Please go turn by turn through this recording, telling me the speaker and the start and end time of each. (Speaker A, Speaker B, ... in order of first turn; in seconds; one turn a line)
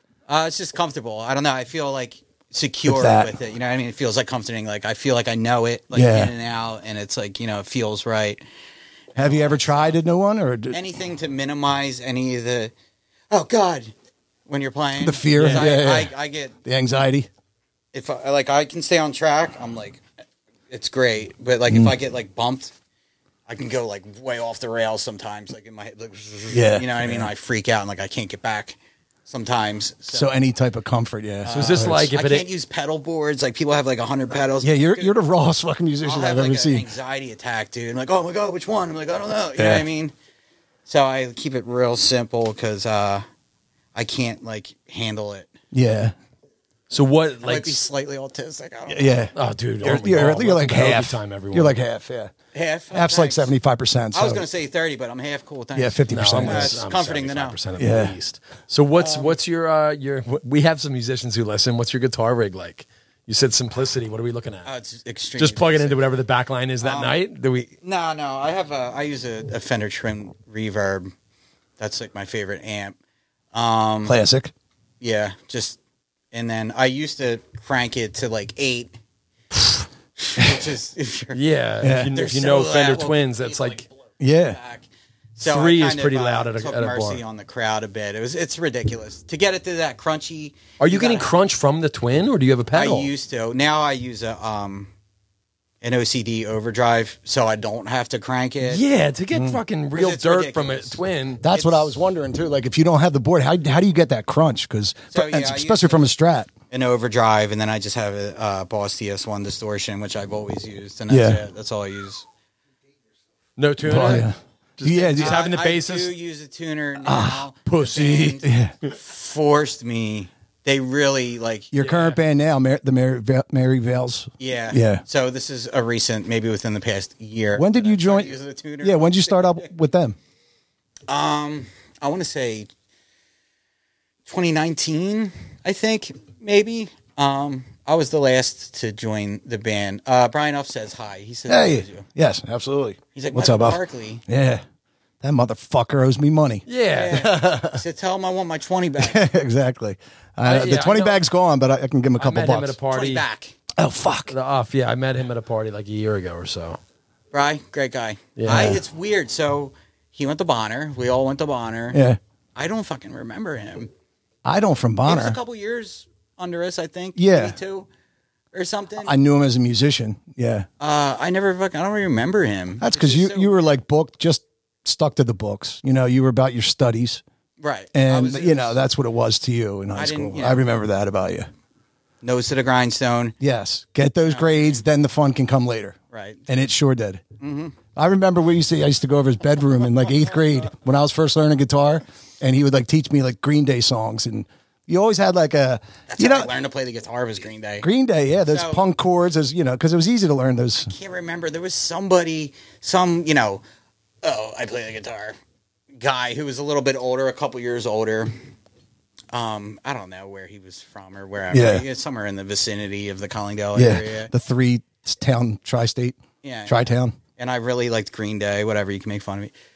Speaker A: 0.3-8.4
Speaker B: 2.9-3.3
Speaker B: 5.9-6.3
Speaker A: 9.1-9.9
Speaker B: 9.2-10.8
Speaker A: 10.7-12.7
Speaker A: 13.3-13.9
Speaker A: 14.5-16.5
Speaker B: 15.0-16.1
Speaker C: 15.3-15.7
Speaker B: 16.6-17.3
Speaker A: 17.9-20.0
Speaker A: 20.7-22.7
Speaker A: 23.5-30.3
Speaker B: 26.5-27.3
Speaker B: 30.1-32.1
Speaker A: 31.4-35.1
Speaker C: 31.5-32.5
Speaker B: 34.6-36.9
Speaker A: 36.0-40.1
Speaker B: 39.6-39.9
Speaker A: 40.9-43.2
Speaker A: 43.9-45.5
Speaker B: 45.7-46.1
Speaker C: 46.9-47.8
Speaker A: 47.4-49.3
Speaker B: 48.9-52.3
Speaker C: 49.3-51.8
Speaker A: 52.5-53.5
Speaker B: 52.9-54.5
Speaker A: 54.1-57.6
Speaker B: 55.7-56.8
Speaker C: 56.1-64.7
Speaker B: 57.8-58.1
Speaker A: 59.0-59.4
Speaker A: 64.6-66.0
Speaker C: 65.4-67.8
Speaker A: 66.8-67.2
Speaker A: 67.8-71.1
Speaker A: 71.8-73.0
Speaker A: 73.5-74.2
Speaker B: 74.0-74.5
Speaker A: 75.0-75.8
Speaker A: 76.3-78.9
Speaker A: 80.2-81.4
Speaker C: 81.3-83.8
Speaker B: 81.8-82.2
Speaker A: 82.1-83.8
Speaker B: 84.2-84.6
Speaker A: 84.4-91.3
Speaker C: 85.4-87.2
Speaker C: 90.8-93.1
Speaker A: 92.7-94.9
Speaker A: 95.8-98.8
Speaker C: 98.6-101.4
Speaker B: 99.3-99.6
Speaker A: 99.9-101.9
Speaker B: 101.4-106.5
Speaker A: 105.1-106.1
Speaker A: 106.7-112.2
Speaker B: 111.1-111.4
Speaker C: 113.6-116.1
Speaker B: 113.8-115.4
Speaker A: 115.2-121.7
Speaker B: 117.0-117.5
Speaker C: 117.6-118.4
Speaker B: 118.4-118.7
Speaker B: 121.7-125.0
Speaker C: 121.8-122.2
Speaker A: 124.4-129.7
Speaker B: 127.5-130.2
Speaker A: 131.1-132.7
Speaker A: 134.2-142.1
Speaker B: 141.5-144.6
Speaker A: 143.1-144.2
Speaker B: 145.2-147.8
Speaker C: 146.7-147.2
Speaker A: 146.9-149.3
Speaker B: 149.0-152.8
Speaker C: 150.4-151.3
Speaker C: 152.2-153.2
Speaker A: 152.9-153.6
Speaker B: 153.7-154.3
Speaker C: 154.3-156.8
Speaker A: 157.3-162.0
Speaker C: 158.4-158.8
Speaker B: 158.5-158.8
Speaker B: 161.9-162.2
Speaker A: 162.6-163.9
Speaker B: 164.4-165.4
Speaker A: 165.1-167.9
Speaker B: 167.2-167.6
Speaker A: 168.5-169.1
Speaker B: 169.0-170.7
Speaker A: 170.8-173.6
Speaker B: 172.8-177.2
Speaker A: 177.6-178.8
Speaker B: 177.9-181.5
Speaker A: 179.9-180.7
Speaker A: 182.2-183.3
Speaker B: 183.4-186.0
Speaker A: 184.2-184.8
Speaker A: 186.1-186.4
Speaker B: 186.5-187.2
Speaker A: 187.4-187.8
Speaker B: 187.9-196.5
Speaker A: 196.1-197.9
Speaker B: 197.8-200.9
Speaker A: 198.5-198.8
Speaker A: 200.7-203.6
Speaker A: 204.2-205.4
Speaker A: 205.9-208.3
Speaker A: 209.3-214.3
Speaker B: 211.5-211.8
Speaker B: 213.7-217.2
Speaker A: 216.4-216.8
Speaker A: 217.3-219.5